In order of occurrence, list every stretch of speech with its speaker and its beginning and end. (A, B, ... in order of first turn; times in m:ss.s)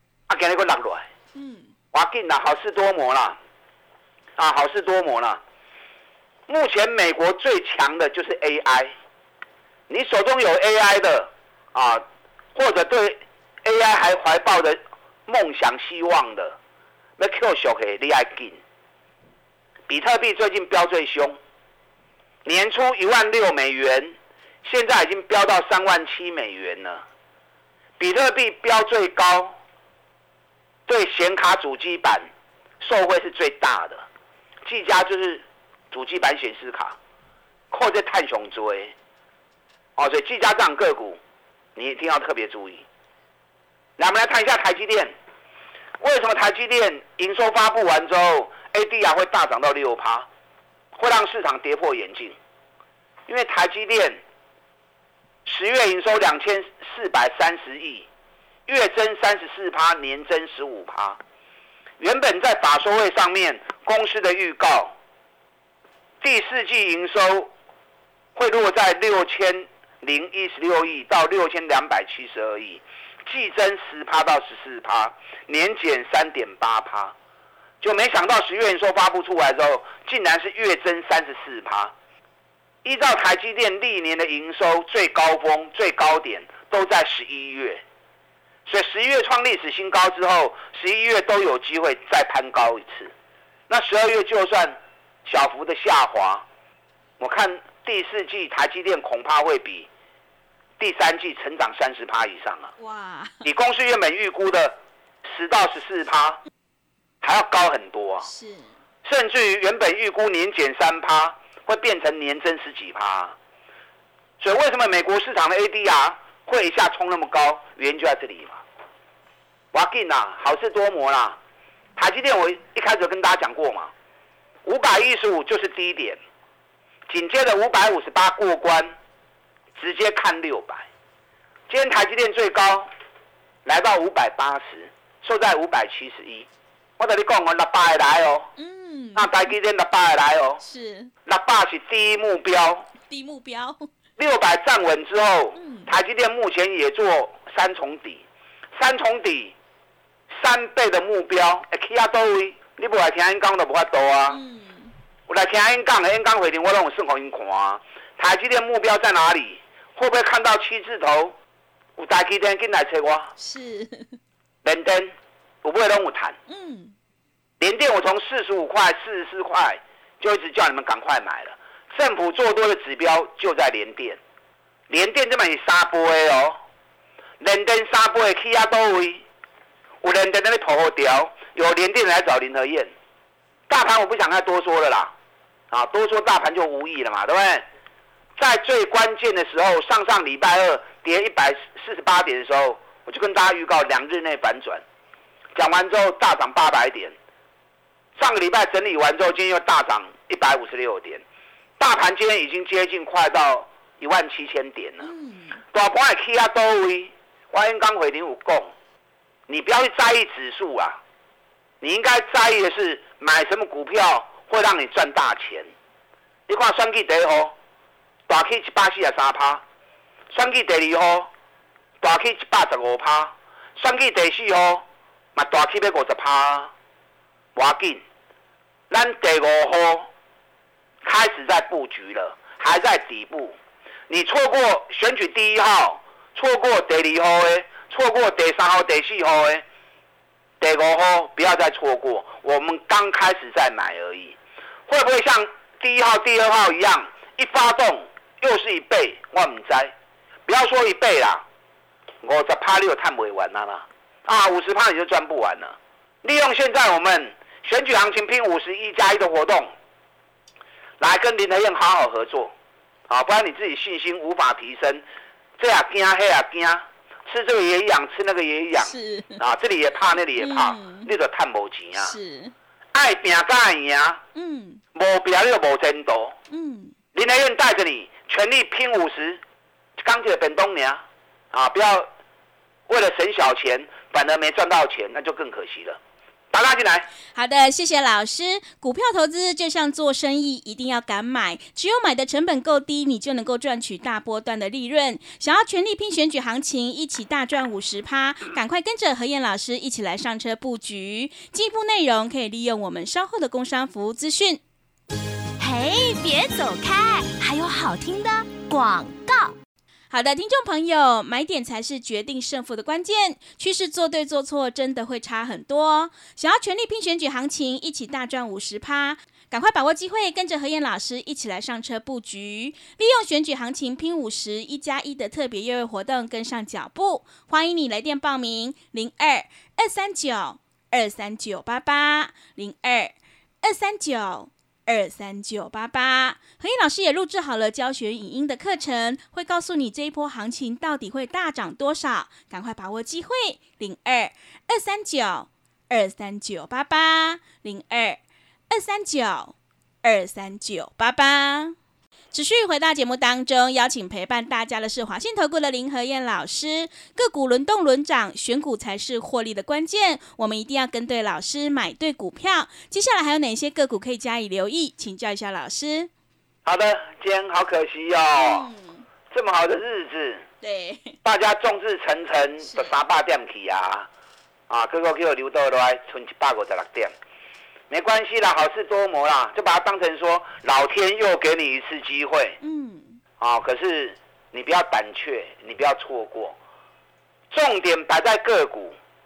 0:00.3-0:01.1 A
0:01.3-0:01.7 B
0:01.9-0:03.4 A
0:04.4-0:05.4 A
0:06.5-0:08.9 A
0:09.9-0:16.6 A
0:17.2-0:18.6 A
0:19.9-0:21.4 A
0:22.4-0:27.0 A
0:28.0-0:29.5 A
0:30.9-0:32.3 A
0:32.8-0:34.0 A
0:34.6-0:37.0 A
0:37.7-0:38.9 A
0:40.0-0:41.2 A
0:41.8-0:42.8 A
0:44.0-0:45.1 A
0:46.0-0:50.3 A
0:50.9-0:52.4 A
0:53.3-0:54.2 A
0:55.4-0:58.1 A
0:58.7-1:01.2 A
1:02.0-1:04.9 A
1:06.2-1:07.5 A
1:08.4-1:17.1 A
1:17.8-1:21.9 A
1:22.8-1:27.8 A
1:28.6-1:33.1 A
1:33.7-1:36.4 A
1:37.2-1:39.9 A
1:40.8-1:42.7 A
1:42.8-1:43.4 B
1:43.4-1:46.4 A
1:47.2-1:48.3 A
1:48.2-1:48.7 B
1:49.0-1:53.3 A
1:54.4-1:58.6 A
1:59.7-2:01.4 A
2:02.0-2:03.9 A
2:04.6-2:06.2 A
2:07.1-2:08.9 A
2:09.8-2:10.9 A
2:11.7-2:12.9 A
2:13.6-2:16.5 A
2:17.0-2:18.5 A
2:18.6-2:19.3 B
2:19.1-2:20.6 A
2:20.6-2:21.1 B
2:21.2-2:22.9 A
2:23.1-2:23.9 B
2:24.2-2:28.2 A
2:25.6-2:25.9 B
2:28.8-2:29.5 A
2:30.4-2:34.4 A
2:34.3-2:34.9 B
2:35.3-2:41.3 A
2:42.0-2:43.3 A
2:43.4-2:44.2 B
2:44.6-2:46.4 A
2:46.5-2:46.9 B
2:47.6-2:54.2 A
2:54.9-2:56.6 A
2:57.4-2:59.2 A
3:00.0-3:02.9 A
3:03.7-3:05.1 A
3:05.7-3:07.6 A
3:08.4-3:14.8 A
3:15.6-3:17.2 A
3:18.2-3:21.2 A
3:21.8-3:25.1 A
3:25.0-3:25.6 B
3:25.7-3:28.7 A
3:29.5-3:31.0 A
3:31.8-3:35.7 A
3:36.5-3:37.5 A
3:38.3-3:39.6 A
3:40.3-3:41.3 A
3:42.0-3:44.8 A
3:45.4-3:46.7 A
3:47.5-3:48.0 A
3:48.9-3:50.1 A
3:51.0-3:53.6 A
3:54.1-3:59.6 A
4:00.6-4:04.4 A
4:04.9-4:09.9 A
4:10.5-4:11.4 A
4:12.2-4:19.7 A
4:21.0-4:22.5 A
4:23.1-4:25.0 A
4:25.6-4:32.1 A
4:28.8-4:29.4 B
4:30.4-4:31.1 B
4:32.0-4:32.5 B
4:32.9-4:34.2 A
4:34.3-4:34.8 B
4:34.9-4:36.4 A
4:36.5-4:36.9 B
4:37.1-4:39.4 A
4:40.0-4:42.1 A
4:42.9-4:46.0 A
4:46.5-4:47.1 A
4:47.3-5:04.6 B
5:05.6-5:09.5 C
5:10.1-5:51.8 B
5:52.3-6:06.1 B
6:06.6-6:08.7 A
6:08.3-6:09.0 B
6:09.3-6:10.4 A
6:10.6-6:11.2 B
6:11.2-6:14.1 A
6:12.6-6:12.9 B
6:14.7-6:17.1 A
6:17.9-6:22.6 A
6:22.6-6:23.2 B
6:23.4-6:26.6 A
6:27.5-6:29.0 A